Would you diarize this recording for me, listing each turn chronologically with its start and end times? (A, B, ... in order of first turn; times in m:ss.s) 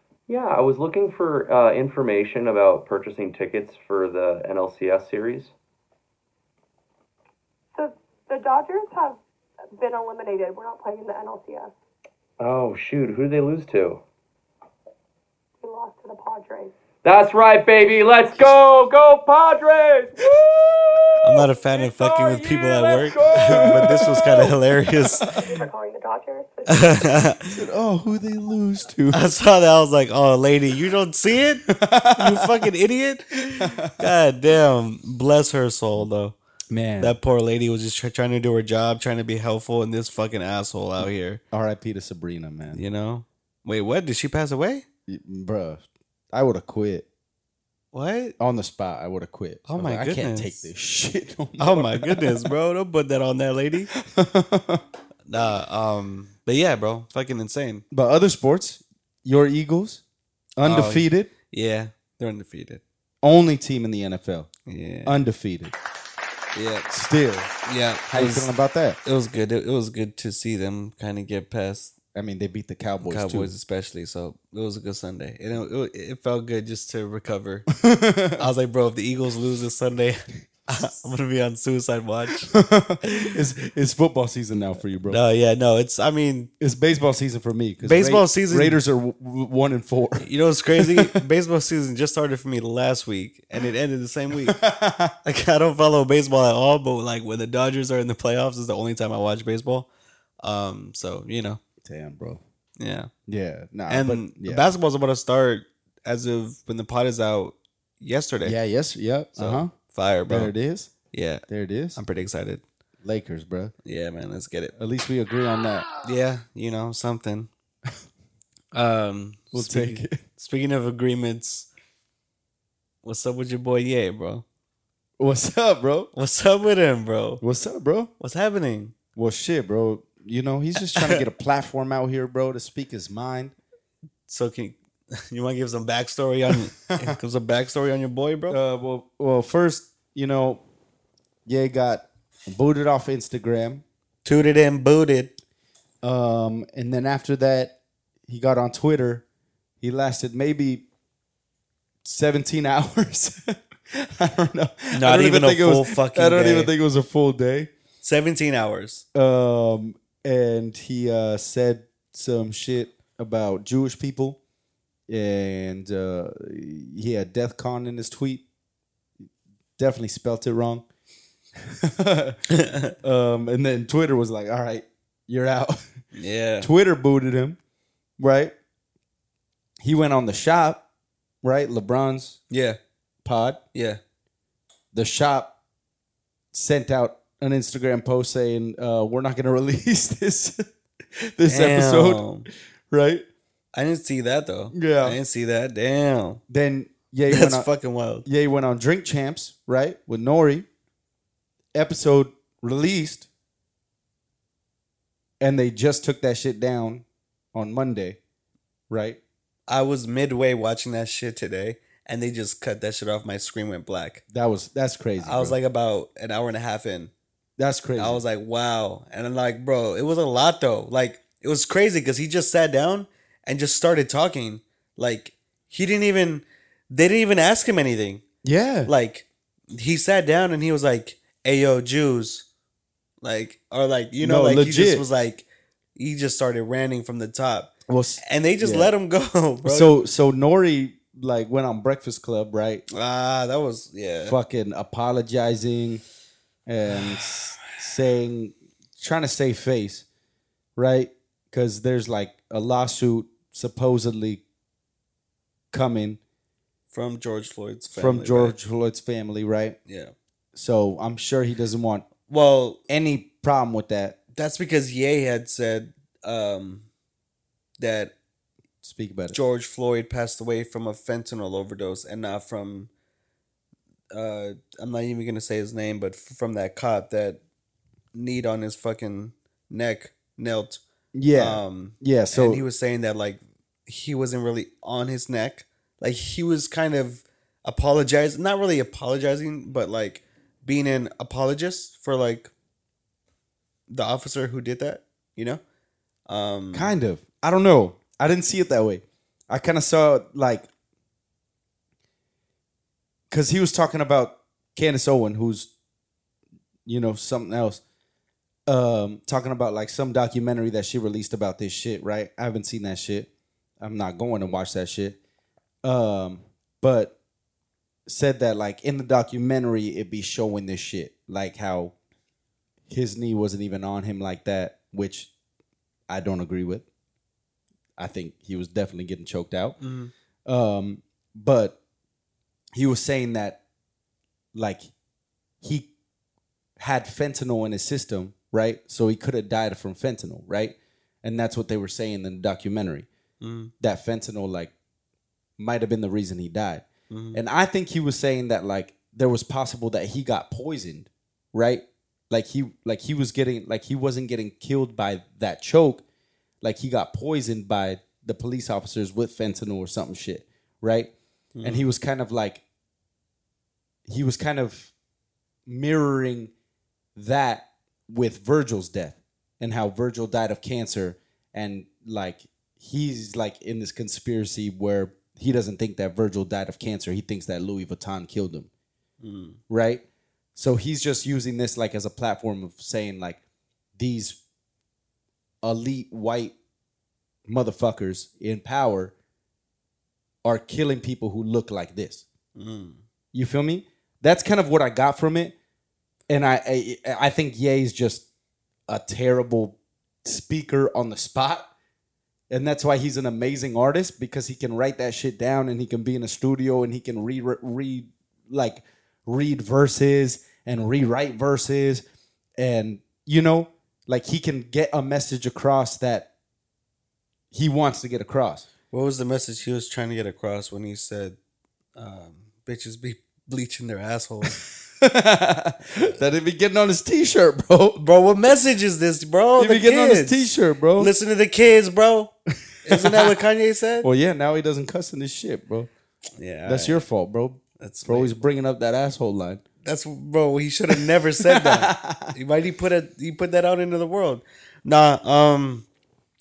0:00.3-0:05.5 A
0:07.7-0:09.2 B
0:09.8-0:11.7 B
0:12.4-0:14.0 A
0:15.6-0:16.7 B
0:17.0-0:24.5 A
0:21.2-0:25.3 C
0:23.6-0:23.9 D
0:25.4-0:27.2 B
0:26.7-0:27.6 C
0:27.5-0:29.2 D
0:29.1-0:36.4 C
0:31.7-0:32.6 D
0:33.6-0:34.1 D
0:36.7-0:37.2 D
0:37.0-0:41.4 C
0:41.5-0:42.8 D
0:42.7-0:44.8 C
0:45.1-0:47.0 D
0:47.9-0:48.3 C
0:48.4-0:52.5 D
0:49.7-0:50.6 C
0:51.6-0:53.9 C
0:53.9-0:54.8 D
0:55.3-0:57.8 C
0:57.9-1:00.0 D
1:00.6-1:01.3 D
1:00.6-1:02.8 C
1:03.2-1:04.5 D
1:04.6-1:05.2 C
1:05.0-1:05.7 D
1:06.5-1:06.9 C
1:06.9-1:07.5 D
1:07.6-1:08.5 C
1:08.1-1:09.0 D
1:09.0-1:11.9 C
1:12.1-1:13.5 D
1:13.0-1:17.7 C
1:17.8-1:18.4 D
1:18.4-1:23.4 C
1:22.5-1:25.2 D
1:25.1-1:26.5 C
1:26.6-1:31.2 D
1:27.8-1:28.8 C
1:30.2-1:34.6 C
1:34.5-1:35.1 D
1:35.2-1:39.9 C
1:40.4-1:41.6 C
1:41.8-1:42.4 D
1:42.8-1:43.1 C
1:43.3-1:44.7 D
1:43.9-1:48.6 C
1:48.4-1:49.7 D
1:49.4-1:50.5 C
1:50.3-1:50.9 D
1:51.1-1:51.4 C
1:51.5-1:52.0 D
1:51.9-1:52.6 C
1:53.0-1:53.7 D
1:53.8-1:54.7 C
1:54.8-1:55.9 D
1:56.0-1:57.5 C
1:58.7-2:01.7 C
1:59.5-2:00.2 D
2:03.0-2:04.4 C
2:05.2-2:06.1 D
2:06.1-2:07.4 C
2:07.4-2:08.1 D
2:08.2-2:08.9 C
2:09.2-2:13.5 D
2:10.8-2:11.2 C
2:14.3-2:18.6 C
2:18.5-2:20.6 D
2:21.4-2:23.8 D
2:24.2-2:25.3 C
2:26.0-2:27.7 D
2:28.3-2:29.2 D
2:29.8-2:30.8 D
2:32.0-2:37.7 D
2:34.9-2:36.7 C
2:38.0-2:39.0 C
2:39.1-2:44.4 D
2:45.1-2:48.4 D
2:49.8-2:50.8 D
2:51.6-2:52.4 D
2:52.5-2:52.9 C
2:53.0-2:55.8 D
2:56.1-2:56.7 C
2:56.6-2:57.6 D
2:58.2-2:58.5 D
2:59.8-3:00.8 D
3:01.4-3:02.4 D
3:02.5-3:02.8 C
3:03.2-3:03.6 D
3:03.7-3:04.0 C
3:04.9-3:05.5 D
3:06.5-3:10.6 D
3:11.2-3:12.3 D
3:11.5-3:12.5 C
3:12.9-3:13.2 D
3:13.7-3:16.4 C
3:14.7-3:15.2 D
3:16.5-3:17.7 D
3:17.3-3:18.2 C
3:18.2-3:20.7 D
3:21.7-3:23.3 D
3:25.4-3:28.2 D
3:28.9-3:29.2 D
3:29.7-3:34.2 C
3:34.3-3:35.6 D
3:35.2-3:37.1 C
3:37.6-3:38.2 D
3:38.0-3:48.2 C
3:48.4-3:48.9 D
3:48.8-3:52.4 C
3:53.2-3:57.7 C
3:54.2-3:55.0 D
3:57.9-3:58.9 D
3:58.2-3:59.9 C
3:59.6-4:02.8 D
4:02.9-4:04.4 C
4:04.2-4:06.0 D
4:06.7-4:10.0 D
4:07.0-4:07.4 C
4:10.8-4:14.4 D
4:15.7-4:16.2 D
4:16.9-4:18.6 C
4:17.9-4:19.8 D
4:19.9-4:20.1 C
4:20.5-4:22.1 D
4:22.2-4:22.8 C
4:22.9-4:24.2 D
4:24.3-4:26.8 C
4:27.8-4:28.1 C
4:28.8-4:29.4 D
4:29.3-4:32.9 C
4:34.1-4:37.4 C
4:38.1-4:40.8 C
4:41.1-4:42.6 D
4:41.3-4:52.5 C
4:53.9-4:55.6 C
4:56.3-4:56.9 C
4:56.7-5:00.7 D
5:03.3-5:05.7 D
5:06.8-5:07.8 D
5:08.7-5:13.3 D
5:13.8-5:15.2 D
5:15.8-5:17.1 D
5:18.0-5:21.9 D
5:22.9-5:25.3 D
5:26.1-5:26.8 D
5:28.0-5:29.8 D
5:29.8-5:30.1 C
5:30.4-5:31.8 D
5:32.7-5:33.6 D
5:34.5-5:34.9 D
5:35.6-5:35.9 D
5:36.8-5:43.1 D
5:43.4-5:43.7 C
5:43.8-5:44.7 D
5:45.6-5:56.0 D
5:47.1-5:47.4 C
5:56.6-6:02.6 D
6:01.5-6:01.8 C
6:04.1-6:04.9 D
6:05.6-6:06.5 D
6:07.1-6:18.7 D
6:19.2-6:19.6 C
6:19.7-6:20.0 D
6:20.5-6:23.4 D
6:24.0-6:24.4 D
6:25.6-6:26.5 D
6:27.4-6:29.1 D
6:30.4-6:32.2 D
6:32.6-6:33.0 C
6:33.3-6:35.5 D
6:36.3-6:38.2 D
6:38.9-6:41.7 D
6:42.5-6:52.0 D
6:52.6-6:56.3 D
6:57.5-6:58.7 D
6:58.9-7:01.4 C
7:02.0-7:04.6 C
7:05.0-7:08.0 D
7:08.0-7:14.1 C
7:09.6-7:11.1 D
7:12.9-7:13.3 D
7:14.0-7:15.9 D
7:16.4-7:17.0 C
7:16.6-7:19.6 D
7:17.8-7:18.4 C
7:19.8-7:25.8 C
7:20.9-7:22.3 D